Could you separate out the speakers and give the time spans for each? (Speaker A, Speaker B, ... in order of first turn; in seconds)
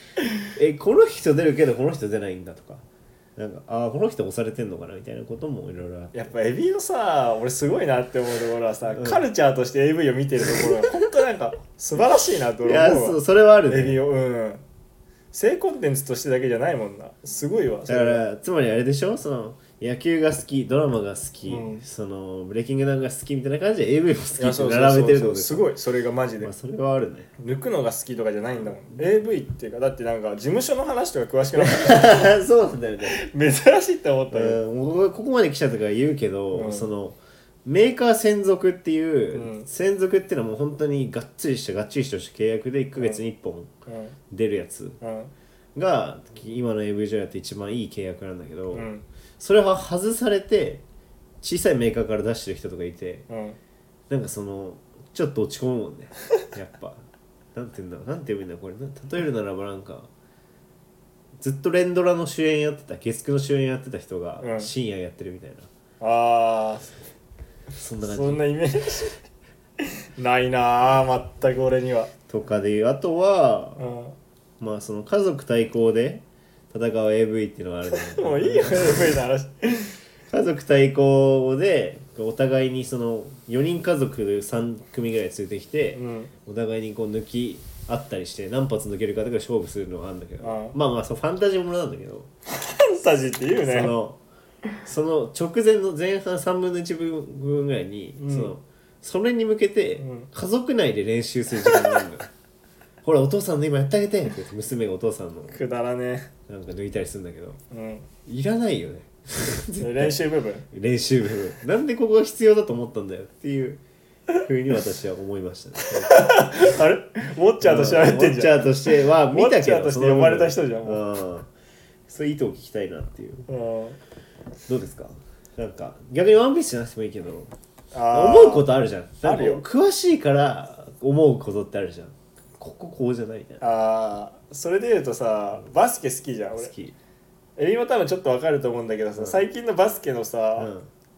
Speaker A: 0.5-2.8, 3.4-6.3, 8.9-9.2, 12.6-14.0, 17.9-25.7, 26.4-27.3, 31.6-33.1, 34.3-43.7, 44.3-45.0, 45.7-50.8, 51.4-53.2, 54.1-60.1, 61.4-65.7, 67.7-68.4, 72.3-73.8, 74.6-79.1, 80.3-92.3, 93.5-94.2, 94.8-102.3, 103.0-105.6, 106.5-107.6, 108.2-113.8, 114.4-116.2, 117.6-121.5, 122.1-123.5, 124.7-127.5, 128.1-133.7, 136.6-136.9, 139.2-139.5, 140.6-140.9
Speaker B: 6.1-14.6, 15.3-18.2, 21.4-21.8, 24.4-26.5, 27.4-32.2, 33.0-34.6, 36.5-36.9, 39.3-39.7, 43.9-44.1, 45.0-45.3, 48.7-49.0, 53.3-53.6, 64.4-64.7, 66.0-66.9, 68.0-69.2, 69.8-72.1, 73.8-74.2, 77.9-80.0, 85.9-86.3, 90.4-90.7, 92.5-93.9, 98.2-98.5, 100.0-100.3, 101.7-102.0, 105.5-106.3, 107.7-108.1, 109.8-110.7, 115.8-121.0, 123.5-124.0, 127.9-128.7, 129.2-129.6, 133.6-136.7, 137.6-140.7